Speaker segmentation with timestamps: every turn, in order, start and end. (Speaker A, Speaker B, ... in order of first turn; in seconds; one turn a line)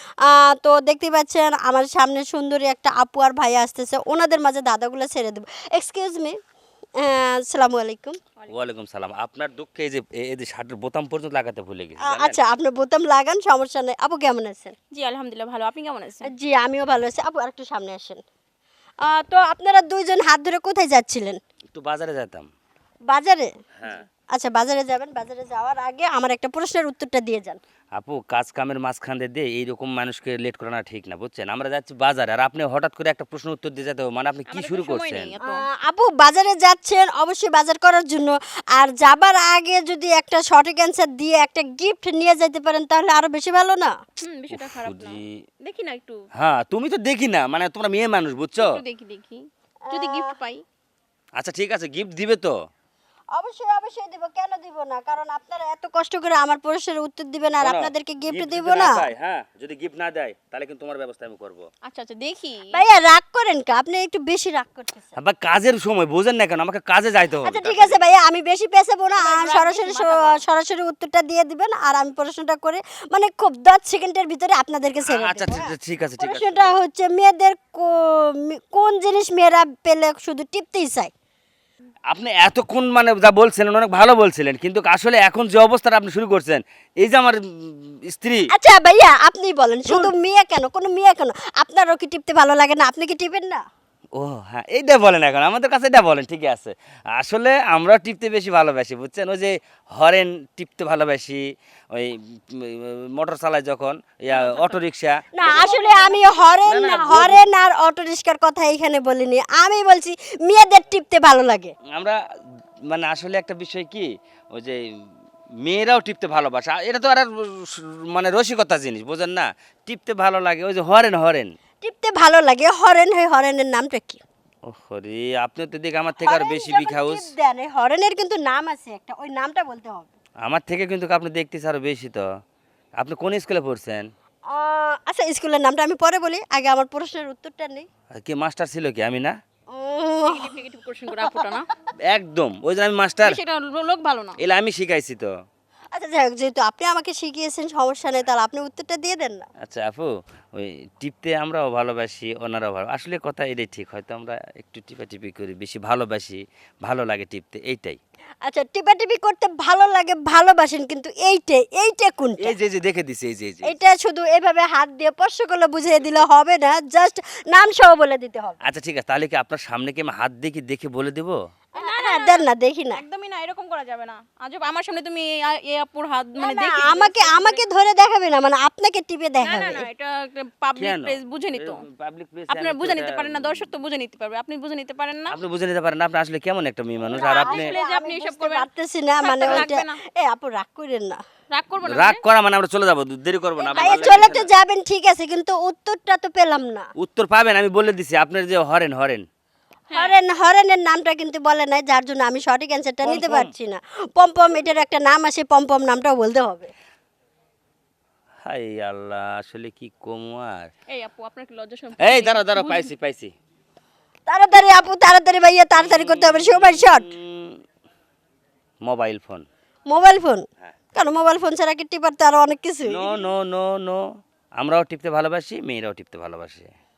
Speaker A: 0.2-6.4
Speaker A: 7.0-8.2
Speaker B: 8.5-12.4
Speaker A: 12.0-14.8
Speaker C: 14.9-16.3
Speaker A: 16.2-18.2
Speaker A: 19.0-21.4
Speaker B: 21.8-22.5
Speaker A: 23.1-23.5
Speaker B: 23.8-24.0
Speaker A: 24.3-27.6
Speaker B: 27.9-35.3
Speaker C: 34.5-35.6
Speaker A: 35.4-44.0
Speaker C: 44.2-46.3
Speaker B: 44.5-45.4
Speaker B: 46.4-48.8
Speaker C: 48.6-50.6
Speaker A: 49.9-50.3
Speaker B: 51.4-52.5
Speaker A: 53.3-59.0
Speaker B: 57.6-61.7
Speaker C: 61.9-62.7
Speaker A: 62.7-65.1
Speaker B: 65.2-68.0
Speaker A: 67.4-81.1
Speaker C: 69.2-70.4
Speaker B: 75.1-76.8
Speaker B: 82.1-88.5
Speaker A: 88.5-93.6
Speaker B: 89.9-90.1
Speaker B: 94.2-105.7
Speaker C: 104.3-104.8
Speaker A: 105.3-111.7
Speaker C: 105.4-106.5
Speaker B: 106.7-107.5
Speaker B: 112.9-114.8
Speaker B: 115.6-121.5
Speaker A: 121.8-124.2
Speaker B: 124.7-127.3
Speaker A: 126.2-130.1
Speaker B: 130.4-132.3
Speaker B: 133.0-134.1
Speaker A: 134.5-137.9
Speaker B: 138.2-139.3
Speaker A: 139.7-140.6
Speaker C: 140.3-141.7
Speaker B: 142.1-143.4
Speaker C: 143.2-144.4
Speaker B: 144.4-145.3
Speaker A: 145.9-149.4
Speaker B: 149.6-158.0
Speaker A: 158.4-162.6
Speaker B: 162.4-163.7
Speaker A: 163.6-168.6
Speaker B: 168.6-171.3
Speaker A: 171.8-173.0
Speaker C: 171.8-177.6
Speaker A: 176.4-179.9
Speaker C: 179.4-181.8
Speaker B: 180.8-183.8
Speaker C: 182.5-185.3
Speaker B: 185.3-187.7
Speaker C: 187.1-188.7
Speaker A: 187.1-191.2
Speaker C: 189.2-190.0
Speaker B: 189.4-189.7
Speaker C: 191.5-192.2
Speaker B: 191.8-194.5
Speaker C: 193.7-194.3
Speaker A: 193.7-196.9
Speaker B: 197.0-199.2
Speaker C: 199.9-200.2
Speaker A: 199.9-206.7
Speaker B: 203.0-203.5
Speaker B: 208.4-210.7
Speaker C: 210.9-212.9
Speaker B: 212.0-213.3
Speaker A: 214.3-217.1
Speaker B: 215.8-217.6
Speaker B: 218.8-219.4
Speaker A: 219.9-223.2
Speaker B: 222.9-224.0
Speaker B: 224.6-226.7